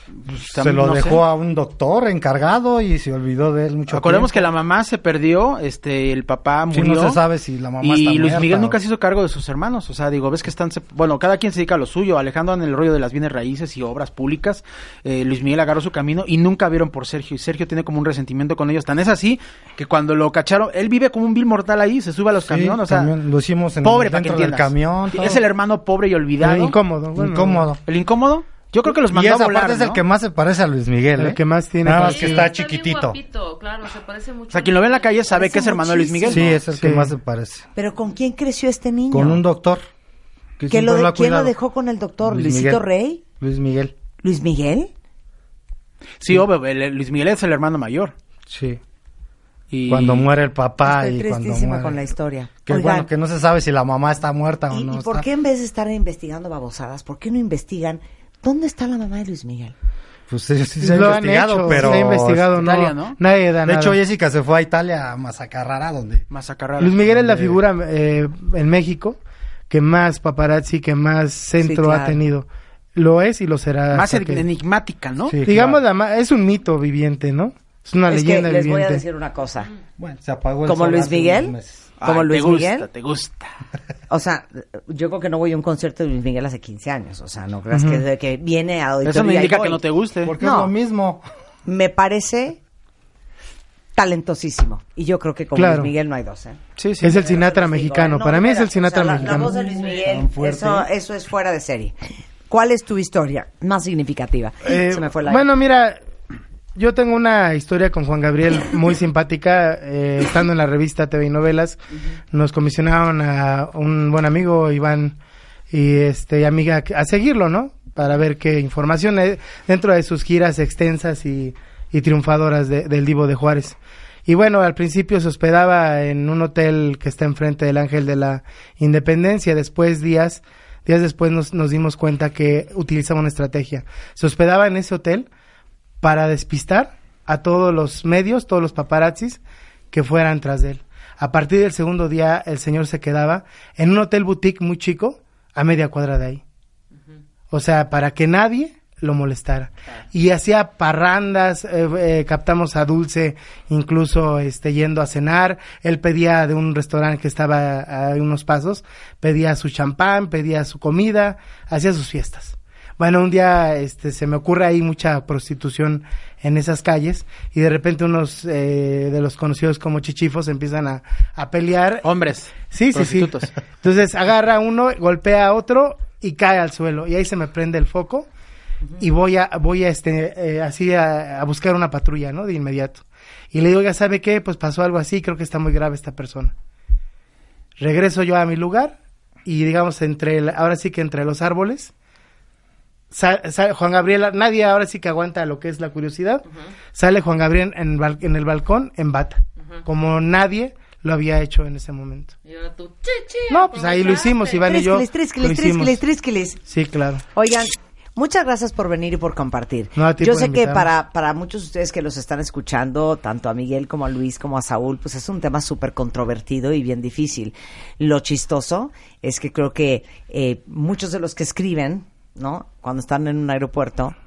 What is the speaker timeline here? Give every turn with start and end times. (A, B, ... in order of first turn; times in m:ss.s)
0:00.2-0:04.5 A
0:00.3-0:01.2 B
0:03.9-0:07.2 B
0:06.7-0:08.8 A
0:07.8-0:23.1 B
0:22.4-0:25.4 A
0:23.8-0:26.8 B
0:26.4-0:27.7 C
0:27.2-0:27.8 A
0:27.8-0:30.0 B
0:28.8-0:33.2 A
0:31.2-0:32.5 C
0:32.0-0:35.5 D
0:34.5-0:36.6 B
0:35.3-0:36.5 E
0:36.3-0:37.6 A
0:36.7-0:37.1 C
0:37.7-0:39.4 E
0:39.1-0:39.8 A
0:40.6-0:41.5 A
0:40.7-0:43.2 E
0:42.2-0:42.8 A
0:43.4-0:43.9 A
0:44.2-0:44.9 E
0:46.2-0:48.1 B
0:48.5-0:48.8 A
0:49.7-0:50.3 B
0:49.9-0:52.0 A
0:50.8-0:53.1 E
0:52.6-0:55.3 A
0:54.7-0:59.7 E
1:00.3-1:02.6 A
1:00.8-1:04.0 C
1:01.7-1:02.0 B
1:02.6-1:03.2 B
1:03.6-1:06.2 A
1:06.3-1:07.0 B
1:06.8-1:09.2 C
1:07.0-1:07.6 A
1:09.7-1:14.4 C
1:11.6-1:12.2 E
1:13.9-1:15.4 B
1:15.3-1:15.8 A
1:15.4-1:19.0 C
1:18.1-1:19.7 E
1:20.0-1:21.9 A
1:20.6-1:22.9 E
1:22.0-1:23.5 B
1:24.1-1:29.8 E
1:27.7-1:28.0 C
1:29.0-1:30.3 B
1:30.2-1:31.2 A
1:30.4-1:30.7 E
1:31.6-1:32.6 E
1:33.9-1:36.6 E
1:35.5-1:35.9 C
1:36.8-1:37.3 B
1:37.0-1:39.5 C
1:37.1-1:42.0 E
1:39.5-1:40.0 D
1:39.8-1:40.9 A
1:42.5-1:45.4 E
1:44.6-1:46.0 C
1:46.8-1:51.8 C
1:52.3-1:55.2 C
1:55.7-2:15.3 C
2:16.0-2:19.4 C
2:19.9-2:26.4 C
2:27.5-2:52.0 C
2:52.0-2:53.5 B
2:52.7-2:58.3 C
2:59.0-3:06.5 C
3:07.8-3:11.9 C
3:13.1-3:22.3 C
3:22.4-3:24.7 D
3:23.5-3:26.0 C
3:24.7-3:26.6 E
3:26.6-3:27.2 C
3:27.3-3:44.1 E
3:29.9-3:30.9 C